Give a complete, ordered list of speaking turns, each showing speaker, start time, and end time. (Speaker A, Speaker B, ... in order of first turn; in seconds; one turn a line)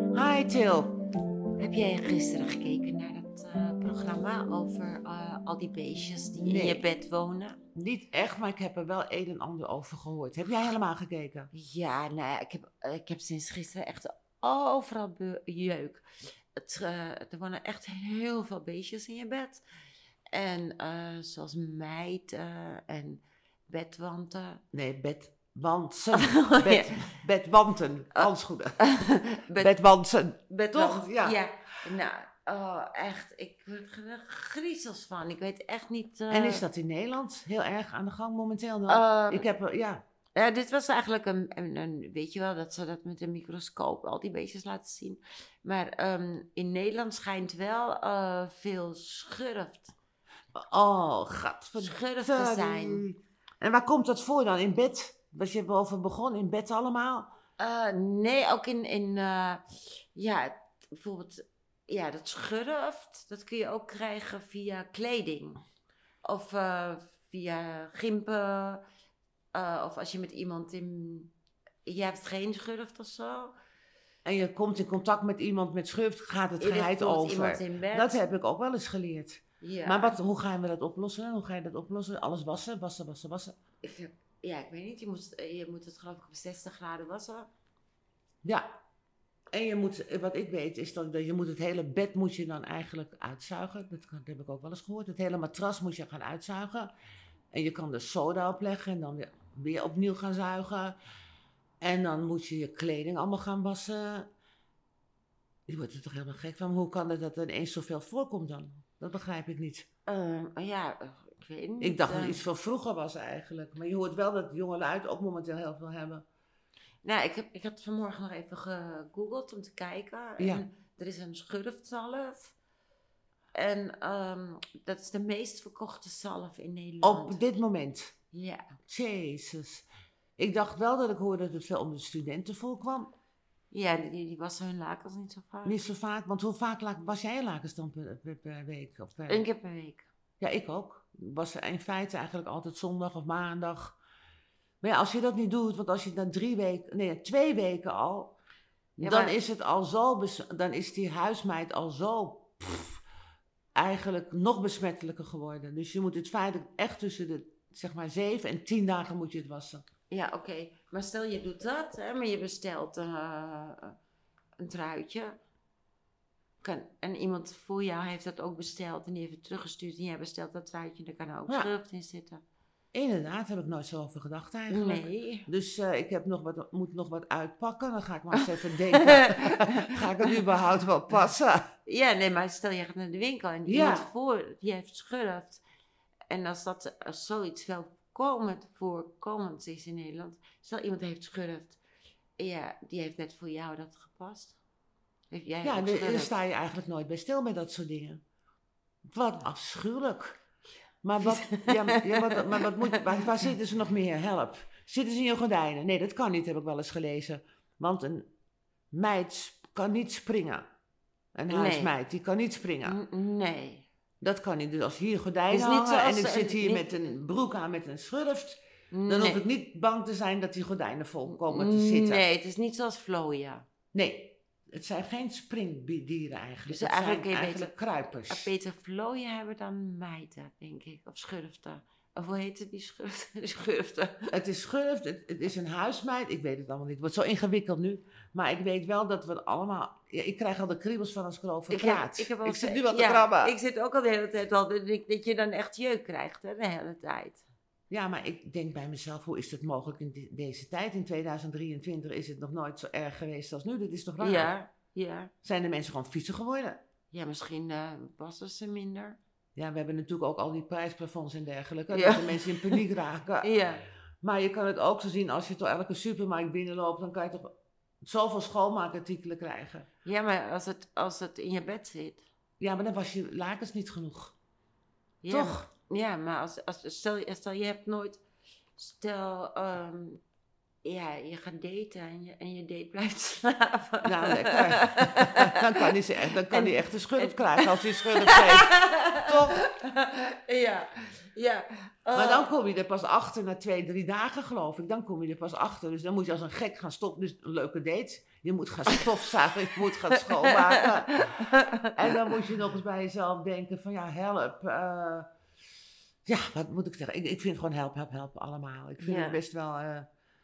Speaker A: 0.1-1.0
Speaker B: 1.6-7.6
Speaker A: 6.4-6.9
Speaker A: 7.8-11.5
Speaker B: 11.5-16.0
Speaker B: 16.6-19.6
Speaker B: 20.3-24.6
Speaker A: 24.7-28.8
Speaker B: 26.1-27.2
Speaker B: 28.2-29.7
Speaker A: 29.6-31.4
Speaker B: 30.5-36.6
Speaker A: 36.3-40.0
Speaker B: 38.9-39.5
Speaker B: 40.4-49.9
Speaker A: 50.5-57.3
Speaker B: 51.8-53.1
Speaker B: 57.6-65.6
Speaker B: 66.2-68.8
Speaker B: 69.5-71.3
Speaker B: 71.9-73.5
Speaker A: 74.2-83.5
Speaker B: 76.6-78.2
Speaker B: 79.6-80.2
Speaker B: 83.8-87.5
Speaker A: 88.4-88.8
Speaker A: 89.5-96.9
Speaker A: 97.5-101.0
Speaker A: 101.8-104.3
Speaker A: 105.7-109.9
Speaker B: 110.1-112.4
Speaker A: 111.8-116.2
Speaker B: 117.0-122.6
Speaker A: 120.4-120.6
Speaker B: 123.5-127.4
Speaker A: 127.0-128.2
Speaker B: 128.3-128.7
Speaker A: 128.9-133.1
Speaker B: 133.7-135.8
Speaker A: 135.7-139.5
Speaker B: 139.3-140.1
Speaker A: 140.4-144.0
Speaker A: 144.8-148.3
Speaker A: 149.0-153.0
Speaker B: 149.0-149.4
Speaker A: 153.8-159.8
Speaker B: 160.1-164.0
Speaker B: 164.6-165.4
Speaker B: 166.6-172.4
Speaker A: 172.9-181.7
Speaker B: 174.7-175.5
Speaker B: 178.4-180.4
Speaker B: 181.9-185.6
Speaker A: 183.7-184.1
Speaker B: 186.3-191.8
Speaker B: 192.4-194.6
Speaker B: 195.3-196.3
Speaker A: 195.6-198.2
Speaker A: 199.1-200.4
Speaker A: 201.0-208.3
Speaker B: 201.2-203.4
Speaker A: 208.9-210.7
Speaker A: 211.3-213.0
Speaker B: 211.5-211.9
Speaker B: 212.8-213.9
Speaker A: 214.2-222.2
Speaker B: 215.5-217.2
Speaker B: 218.9-219.4
Speaker B: 221.3-223.7
Speaker A: 223.9-228.5
Speaker B: 226.7-227.8
Speaker B: 228.3-234.3
Speaker A: 234.3-243.6
Speaker B: 241.7-247.4
Speaker A: 247.9-254.5
Speaker B: 254.2-255.3
Speaker A: 255.4-256.8
Speaker B: 257.1-259.2
Speaker A: 259.6-263.5
Speaker B: 261.9-262.8
Speaker B: 263.4-263.9
Speaker A: 264.2-267.5
Speaker A: 268.0-269.9
Speaker B: 270.0-272.2
Speaker A: 272.6-274.4
Speaker B: 275.2-278.2
Speaker A: 275.3-275.7
Speaker B: 278.8-280.2
Speaker B: 280.9-292.5
Speaker A: 284.0-289.6
Speaker A: 292.1-301.2
Speaker B: 299.9-302.3
Speaker A: 301.9-305.3
Speaker A: 306.3-310.1
Speaker B: 309.0-309.4